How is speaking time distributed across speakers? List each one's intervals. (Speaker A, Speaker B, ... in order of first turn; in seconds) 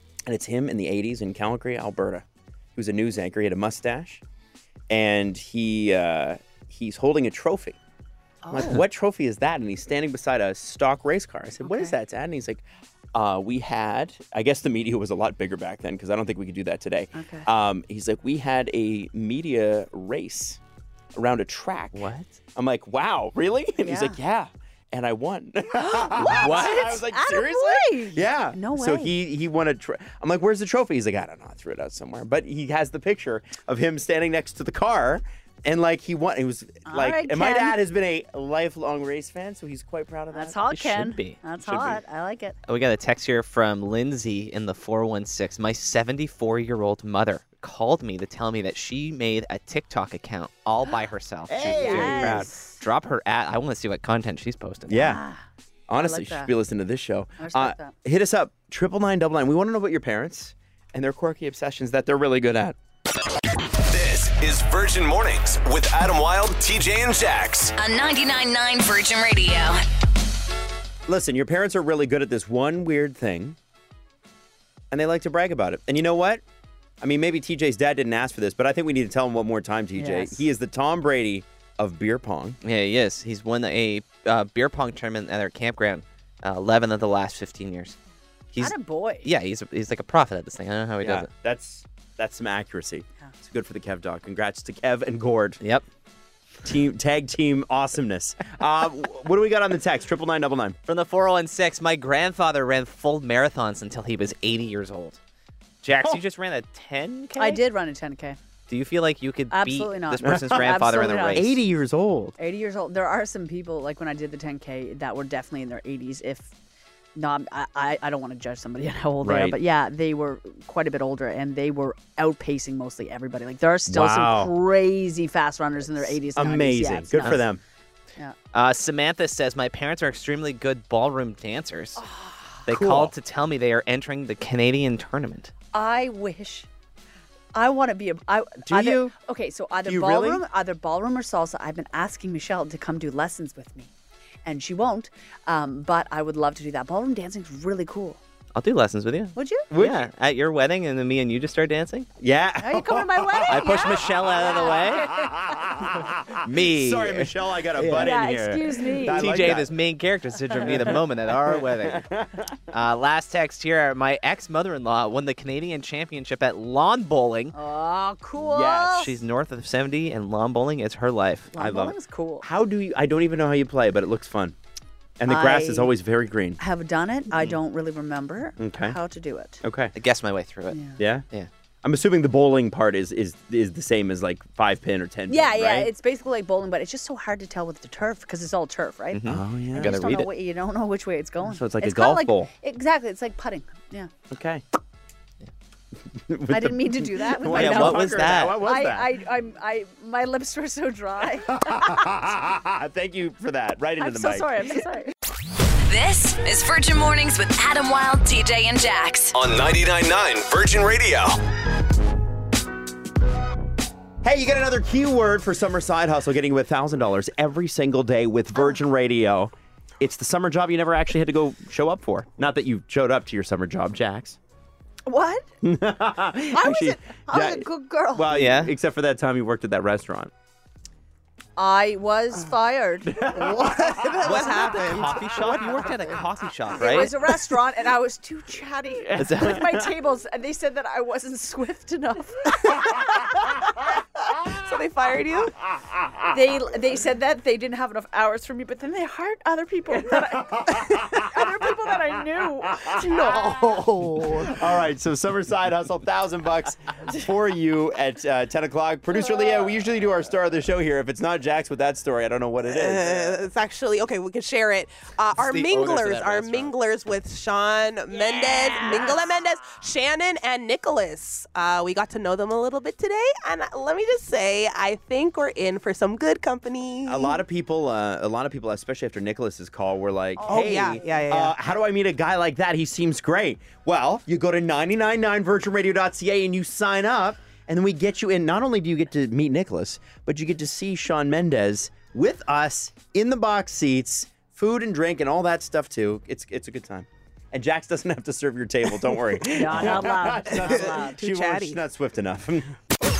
Speaker A: 0.2-4.2, 4.9-7.8, 8.5-20.6, 21.1-40.6, 51.5-52.5, 54.9-55.2, 55.9-62.8, 71.1-73.6, 74.9-76.4, 77.0-82.6, 91.0-95.6, 96.6-100.8, 110.2-110.7, 111.3-112.3, 119.2-119.6, 123.9-124.5, 125.8-127.6, 132.7-133.1, 138.6-139.1, 139.8-140.4, 149.7-150.1, 152.2-154.3, 154.9-159.7, 160.6-162.6, 168.4-169.1, 171.6-174.5, 175.2-176.6, 178.6-179.0, 179.6-179.9, 181.0-181.2, 181.8-185.9, 189.3-190.2, 191.4-192.5, 194.3-194.6, 196.1-199.2, 201.5-204.8, 214.2-224.4, 225.6-230.3, 233.1-235.2, 239.1-239.8, 245.8-246.3, 250.1-251.2, 254.4-263.4, 277.1-302.7
Speaker B: 8.4-8.8, 11.6-11.9, 17.1-17.5, 23.8-24.2, 25.7-29.1, 36.8-37.8, 40.3-42.5, 51.6-52.8, 54.9-55.4, 56.0-56.5, 57.4-57.9, 80.0-80.5, 88.6-89.3, 107.4-108.4, 109.5-111.4, 112.4-116.5, 117.2-127.4, 132.0-132.7, 135.7-136.7, 137.5-143.9, 144.4-148.2, 149.3-149.7, 152.6-155.7, 158.0-159.2, 167.5-169.1, 171.5-172.4, 175.3-175.9, 176.6-179.6, 180.7-181.0, 185.3-194.1, 196.5-202.1, 204.0-205.1, 225.1-225.5, 226.5-228.3, 231.6-235.0, 236.7-243.5, 246.3-253.6, 299.5-301.2
Speaker C: 21.9-22.4, 26.2-26.9, 40.7-42.0, 42.6-55.2, 82.6-88.0, 88.5-91.3, 100.9-105.2, 105.8-107.6, 108.7-111.5, 127.2-127.4, 128.5-132.0, 132.7-135.5, 148.5-152.1, 153.5-155.2, 156.4-158.1, 159.1-162.0, 162.7-167.5, 168.9-171.5, 179.9-180.8, 189.1-190.3, 197.5-198.6, 228.3-228.7, 234.2-237.1, 239.2-239.6, 265.4-266.7, 268.5-269.1
Speaker D: 63.8-67.7, 209.3-211.4
Speaker E: 67.8-69.8, 205.9-209.3
Speaker F: 233.6-235.1, 244.4-245.6, 252.9-254.6, 262.6-277.4, 280.4-281.5, 300.5-301.8